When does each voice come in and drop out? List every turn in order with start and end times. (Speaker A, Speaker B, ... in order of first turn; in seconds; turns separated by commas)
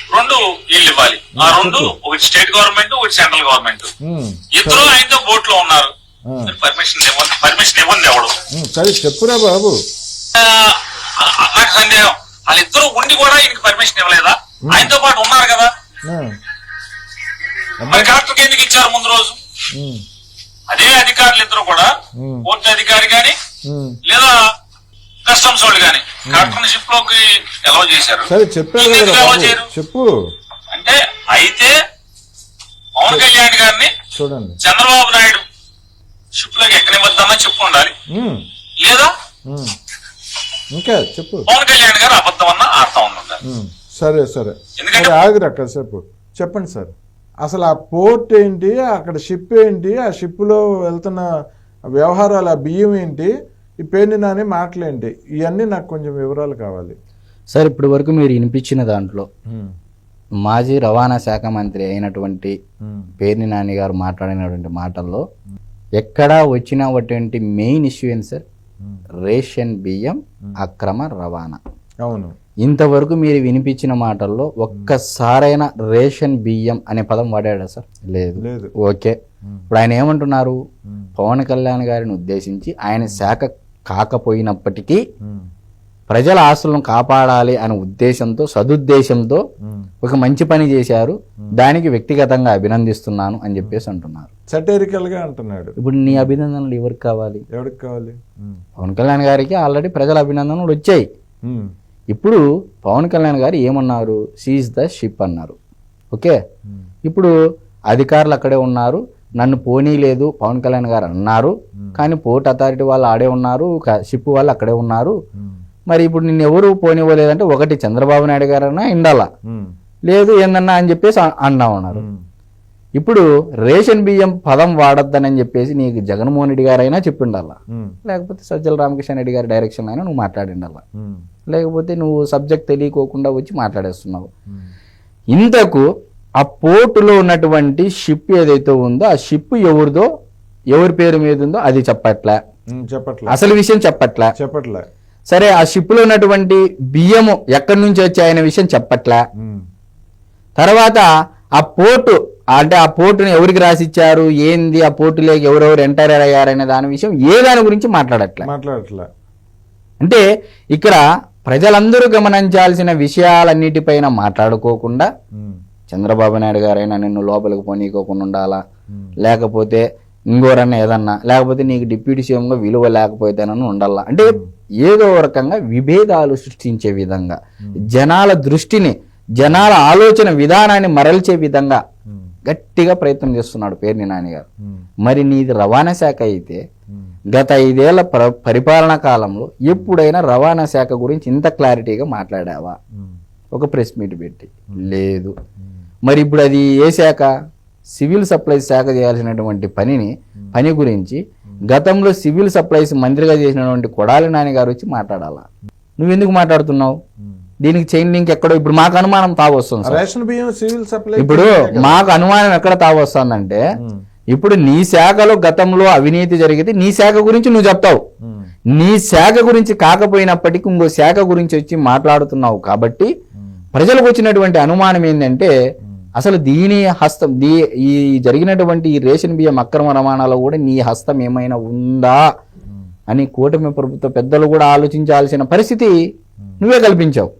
Speaker A: 0.1-3.9, Speaker B: 1.4-1.9, Speaker B: 4.0-4.9, Speaker A: 4.5-5.9, Speaker A: 6.4-8.4, Speaker B: 8.5-9.7, Speaker A: 10.3-15.7, Speaker B: 16.1-16.3, Speaker B: 17.8-18.1, Speaker A: 17.9-19.4, Speaker B: 19.7-20.0, Speaker A: 20.7-21.9, Speaker B: 22.2-22.4, Speaker A: 22.4-23.4, Speaker B: 23.7-24.0, Speaker A: 24.0-24.4, Speaker A: 25.2-28.2, Speaker B: 26.3-26.6, Speaker B: 28.3-30.1, Speaker A: 28.8-29.7, Speaker A: 30.7-31.7, Speaker A: 33.0-33.9, Speaker B: 34.1-34.6, Speaker A: 34.6-35.4, Speaker A: 36.4-37.9, Speaker B: 38.1-38.4, Speaker A: 38.8-39.1, Speaker B: 39.5-39.7, Speaker B: 40.7-41.5, Speaker A: 41.5-43.4, Speaker B: 43.5-46.9, Speaker A: 44.8-45.1, Speaker B: 47.4-51.3, Speaker B: 52.0-53.3, Speaker B: 53.8-57.0, Speaker C: 57.5-59.3, Speaker C: 60.4-62.5, Speaker C: 63.2-65.2, Speaker C: 66.0-68.4, Speaker C: 69.2-71.6, Speaker B: 72.0-72.3, Speaker C: 72.6-79.2, Speaker B: 78.4-78.7, Speaker C: 79.7-80.6, Speaker C: 81.2-85.0, Speaker C: 86.1-89.4, Speaker C: 90.0-94.3, Speaker B: 94.5-96.3, Speaker C: 95.8-97.4, Speaker B: 97.5-98.6, Speaker C: 98.8-101.0, Speaker C: 102.1-105.5, Speaker C: 107.1-107.3, Speaker C: 107.9-115.1, Speaker C: 115.9-119.3, Speaker C: 120.1-122.0, Speaker C: 123.0-130.8, Speaker C: 131.5-134.3, Speaker C: 135.3-135.8, Speaker C: 136.4-140.1, Speaker C: 140.7-142.4, Speaker B: 142.8-143.4, Speaker C: 143.3-144.3, Speaker B: 144.4-144.8, Speaker C: 145.3-149.2, Speaker C: 150.6-151.1, Speaker C: 151.6-158.5, Speaker B: 158.4-159.1, Speaker C: 160.7-165.1, Speaker C: 165.9-168.6, Speaker C: 169.2-181.8, Speaker C: 182.4-184.4, Speaker C: 185.1-186.6, Speaker C: 187.3-192.8, Speaker C: 193.5-195.3, Speaker C: 196.1-197.3, Speaker C: 197.9-205.4, Speaker C: 206.0-207.0, Speaker C: 207.6-210.0, Speaker B: 209.9-212.1, Speaker C: 211.2-213.6, Speaker C: 214.3-218.0, Speaker C: 218.7-223.1, Speaker C: 223.7-225.5, Speaker C: 226.2-232.2, Speaker C: 233.1-235.9, Speaker C: 236.6-237.3